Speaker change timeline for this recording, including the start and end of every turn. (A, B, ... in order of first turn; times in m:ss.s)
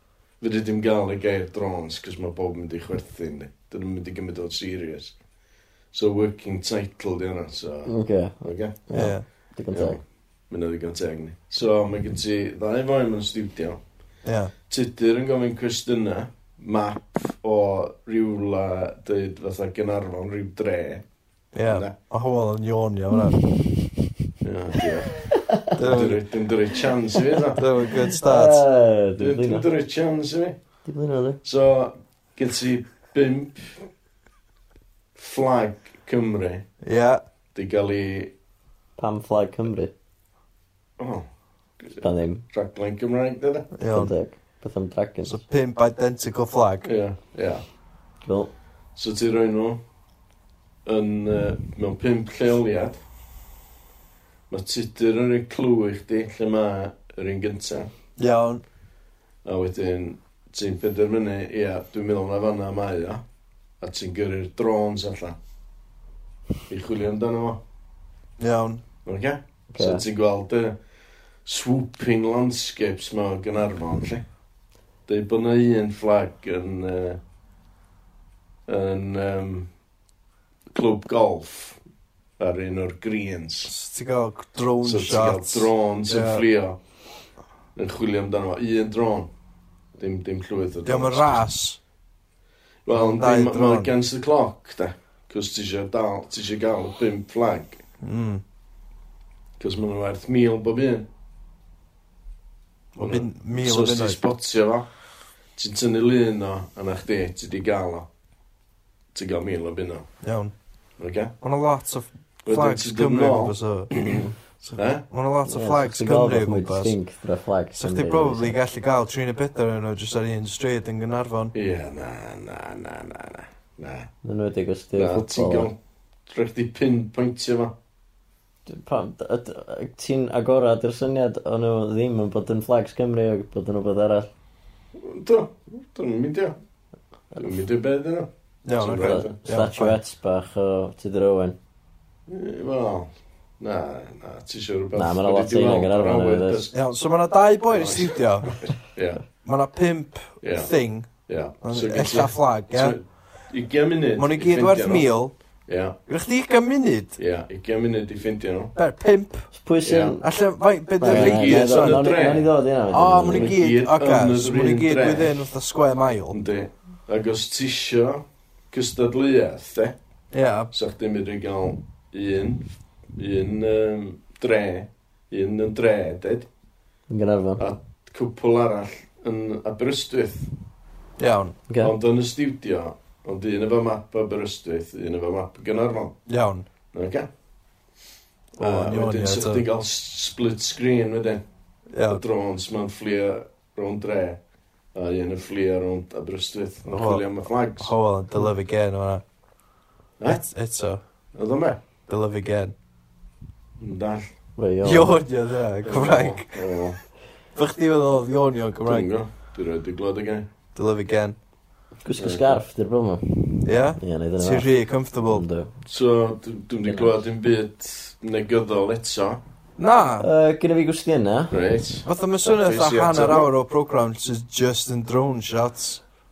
0:00.4-0:05.2 A
0:05.9-0:08.8 A
0:07.9-0:10.0 B
0:08.9-0:09.2 C
0:09.7-0:13.8 A
0:14.2-0:14.5 C
0:14.7-0:21.0 A
0:21.5-0:23.5 C
0:21.6-0:21.9 A
0:24.4-0:27.6 A
0:25.2-0:25.8 B
0:25.7-0:26.2 C
0:27.6-0:28.6 C
0:28.1-0:29.6 B
0:29.2-0:30.6 A
0:30.8-0:31.4 B
0:31.4-0:33.8 A
0:35.2-0:36.6 A
0:36.8-0:37.2 C
0:37.5-0:38.3 A
0:39.0-0:39.9 B
0:41.0-0:41.2 A
0:41.9-0:43.7 A
0:42.0-0:42.4 B
0:43.7-0:44.1 C
0:43.8-0:45.4 B
0:45.2-0:46.9 C
0:46.8-0:47.6 A
0:48.2-0:48.5 B
0:48.9-0:49.8 A
0:50.8-0:53.0 A
0:54.5-0:57.9 A
0:58.2-0:58.6 C
0:59.4-1:03.2 A
1:03.8-1:05.4 A
1:06.7-1:07.6 A
1:08.4-1:08.8 C
1:09.0-1:10.8 A
1:09.7-1:10.0 B
1:11.4-1:14.2 A
1:15.1-1:17.2 A
1:18.7-1:19.7 A
1:20.7-1:21.8 A
1:22.4-1:23.7 A
1:23.6-1:26.4 C
1:24.8-1:26.8 A
1:27.8-1:29.3 A
1:30.0-1:31.4 A
1:30.8-1:31.8 C
1:32.8-1:37.8 A
1:32.9-1:33.9 C
1:38.0-1:38.4 C
1:39.6-1:41.1 A
1:42.9-1:44.2 C
1:43.0-1:44.9 A
1:45.6-1:48.1 A
1:49.1-1:50.1 A
1:50.2-1:50.5 C
1:51.0-1:51.3 A
1:51.4-1:56.9 C
1:52.4-1:55.0 A
1:55.5-1:58.5 B
1:57.8-2:01.5 C
2:01.5-2:04.1 A
2:04.2-2:05.7 B
2:05.0-2:07.7 A
2:08.6-2:14.3 B
2:15.0-2:16.6 A
2:17.3-2:19.3 A
2:18.6-2:20.0 C
2:18.9-2:21.6 B
2:22.3-2:23.1 A
2:23.6-2:26.7 A
2:24.9-2:26.7 B
2:26.7-2:28.7 C
2:27.7-2:29.2 A
2:29.4-2:33.0 C
2:30.4-2:35.1 A
2:34.2-2:35.4 C
2:35.7-2:36.0 A
2:36.1-2:37.2 C
2:37.2-2:38.7 A
2:38.7-2:39.5 C
2:39.5-2:40.2 B
2:39.8-2:40.2 A
2:40.2-2:42.1 C
2:41.0-2:43.6 B
2:41.0-2:42.5 A
2:42.9-2:46.4 C
2:43.2-2:45.3 A
2:46.3-2:50.0 A
2:50.3-2:50.7 C
2:50.7-2:56.5 A
2:57.1-2:57.6 B
2:57.6-3:00.5 A
3:01.2-3:01.6 C
3:01.7-3:01.9 B
3:01.8-3:06.2 A
3:06.3-3:06.6 C
3:06.9-3:07.3 A
3:08.6-3:11.4 A
3:08.6-3:09.6 C
3:11.9-3:12.2 C
3:12.0-3:14.4 A
3:14.9-3:17.9 A
3:16.9-3:17.2 C
3:17.8-3:19.2 C
3:20.2-3:21.0 C
3:21.3-3:21.8 A
3:22.1-3:22.7 C
3:23.8-3:24.3 A
3:24.6-3:25.2 B
3:24.8-3:26.6 C
3:25.8-3:27.0 A
3:27.5-3:29.1 C
3:28.8-3:30.5 A
3:30.7-3:31.4 C
3:32.0-3:34.7 B
3:32.2-3:32.6 A
3:33.6-3:35.4 C
3:35.2-3:35.7 B
3:35.8-3:39.4 A
3:36.8-3:37.2 B
3:39.8-3:40.3 C
3:40.2-3:41.5 B
3:41.5-3:43.5 A
3:42.0-3:46.0 C